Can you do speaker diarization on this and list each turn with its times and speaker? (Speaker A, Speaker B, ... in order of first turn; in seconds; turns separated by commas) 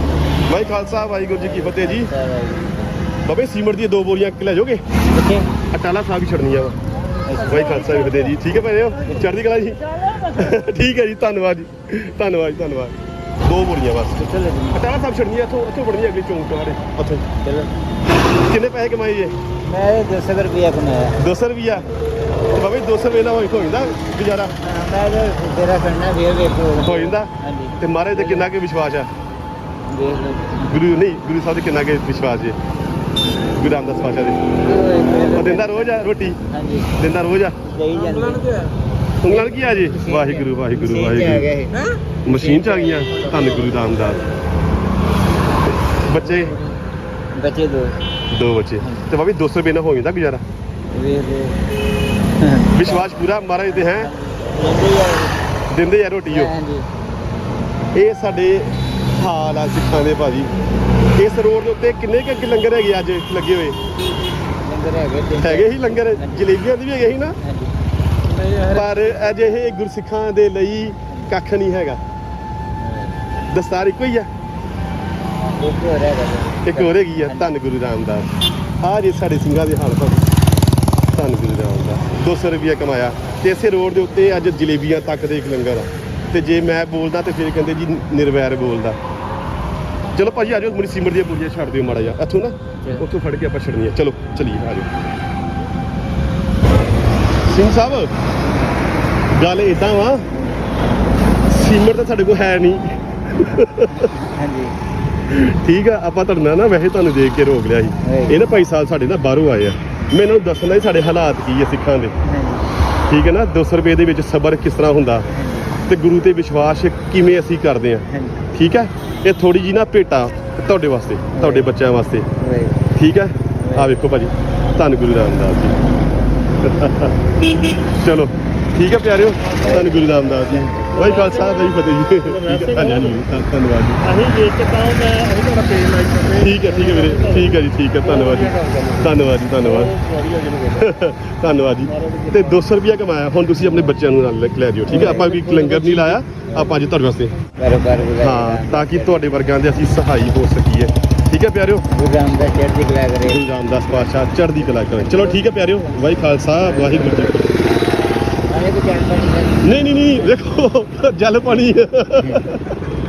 Speaker A: 0.5-2.1, Speaker B: 1.4-2.9, Speaker A: 3.2-4.8, Speaker B: 5.1-5.5, Speaker A: 5.7-6.8, Speaker B: 7.2-8.4, Speaker A: 7.5-17.2, Speaker B: 9.1-9.3, Speaker B: 10.1-10.3, Speaker B: 14.2-14.9, Speaker B: 17.4-17.7, Speaker A: 18.4-19.4, Speaker B: 19.7-21.9, Speaker A: 21.2-21.9, Speaker A: 22.5-24.6, Speaker B: 24.6-28.5, Speaker A: 26.8-29.1, Speaker B: 29.9-30.8, Speaker A: 30.6-32.6, Speaker A: 33.6-34.4, Speaker B: 34.6-36.9, Speaker A: 35.3-36.4, Speaker A: 37.0-37.6, Speaker B: 37.6-38.7, Speaker C: 37.9-38.7, Speaker A: 39.2-41.5, Speaker B: 39.2-43.9, Speaker C: 41.7-42.0, Speaker A: 42.2-44.3, Speaker A: 45.8-46.6, Speaker B: 47.3-48.0, Speaker A: 48.3-50.4, Speaker B: 48.8-49.1, Speaker B: 50.9-51.6, Speaker B: 52.4-55.4, Speaker A: 52.7-54.1, Speaker A: 55.7-56.5, Speaker B: 56.3-56.9, Speaker A: 57.9-60.5, Speaker A: 61.1-63.8, Speaker B: 64.6-66.6, Speaker A: 65.4-67.3, Speaker B: 67.4-67.7, Speaker C: 68.3-69.0, Speaker A: 68.7-72.0, Speaker B: 72.8-73.2, Speaker A: 73.5-74.3, Speaker B: 75.6-77.5, Speaker A: 76.6-78.3, Speaker A: 78.8-80.2, Speaker A: 81.1-89.0, Speaker A: 90.1-95.2, Speaker A: 97.5-98.1, Speaker A: 99.3-100.3, Speaker B: 100.3-100.6, Speaker A: 101.5-104.1, Speaker B: 104.0-104.8, Speaker A: 105.3-112.1, Speaker B: 108.0-108.4, Speaker B: 112.2-112.7, Speaker A: 113.1-115.3, Speaker B: 115.3-115.8, Speaker A: 115.8-122.3, Speaker B: 118.1-118.4, Speaker B: 121.3-121.7, Speaker B: 122.4-122.9, Speaker A: 122.9-125.8, Speaker B: 123.6-124.0, Speaker A: 126.6-134.0, Speaker B: 129.6-131.0, Speaker C: 129.6-130.2, Speaker C: 130.9-133.2, Speaker C: 134.0-140.9, Speaker A: 136.4-139.9, Speaker A: 140.7-147.3, Speaker C: 141.9-142.6, Speaker B: 144.9-145.5, Speaker C: 145.1-146.2, Speaker B: 147.6-149.3, Speaker A: 148.2-151.9, Speaker B: 151.9-154.1, Speaker A: 153.3-157.6, Speaker B: 154.8-157.0, Speaker B: 158.5-160.3, Speaker A: 159.6-162.7, Speaker B: 162.2-162.5